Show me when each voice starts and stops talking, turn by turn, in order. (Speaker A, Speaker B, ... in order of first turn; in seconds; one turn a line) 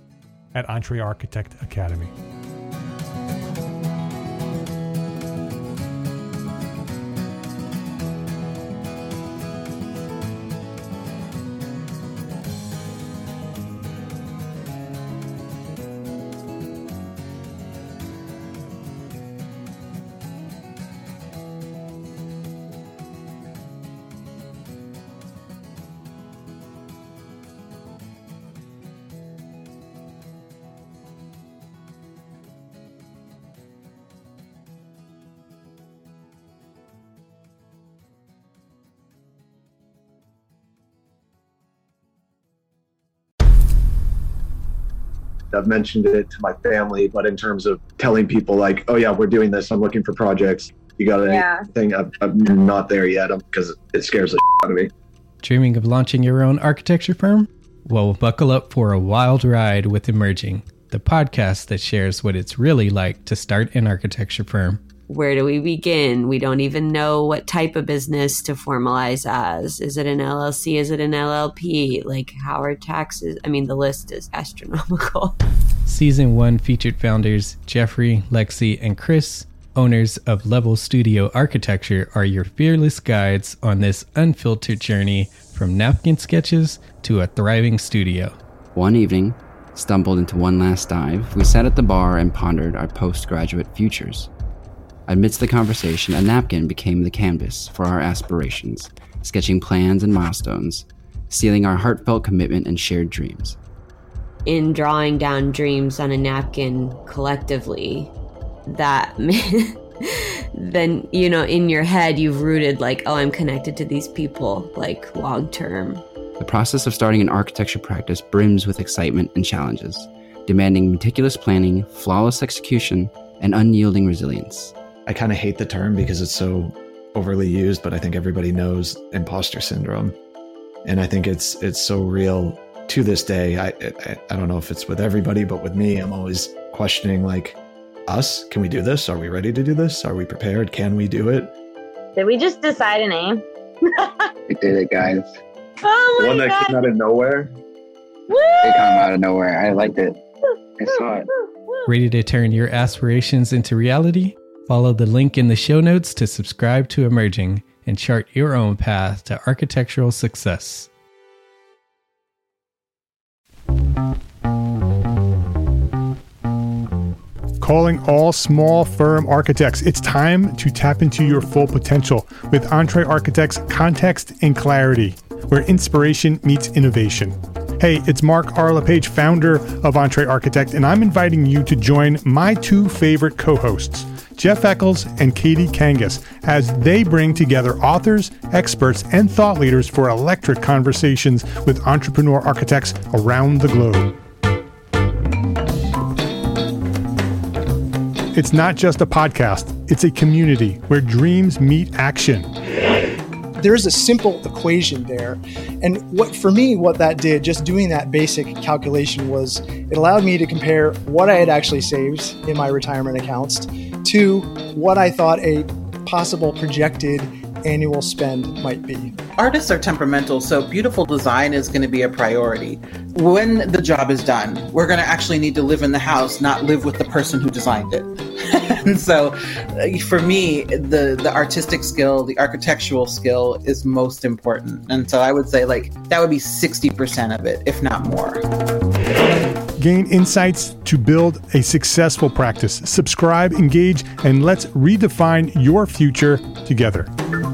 Speaker A: 0.5-2.1
Speaker B: 45.5-54.9
Speaker C: 51.2-51.7
Speaker D: 55.4-64.8
Speaker E: 65.1-75.3
Speaker D: 75.9-88.4
Speaker F: 88.7-94.3
Speaker F: 95.1-103.6
Speaker E: 104.5-108.1
Speaker E: 108.7-116.0
Speaker F: 116.4-124.7
Speaker B: 125.1-130.2
Speaker B: 130.8-141.5
Speaker C: 142.2-143.4
Speaker G: 144.5-145.3
Speaker C: 145.8-146.8
Speaker B: 146.2-147.5
Speaker C: 148.3-148.7
Speaker G: 148.6-150.2
Speaker G: 150.8-151.3
Speaker D: 151.9-160.9
Speaker A: 167.6-194.1
Speaker A: 198.3-202.5
Speaker H: 203.6-219.2
Speaker I: 219.4-238.4
Speaker A: 239.8-247.1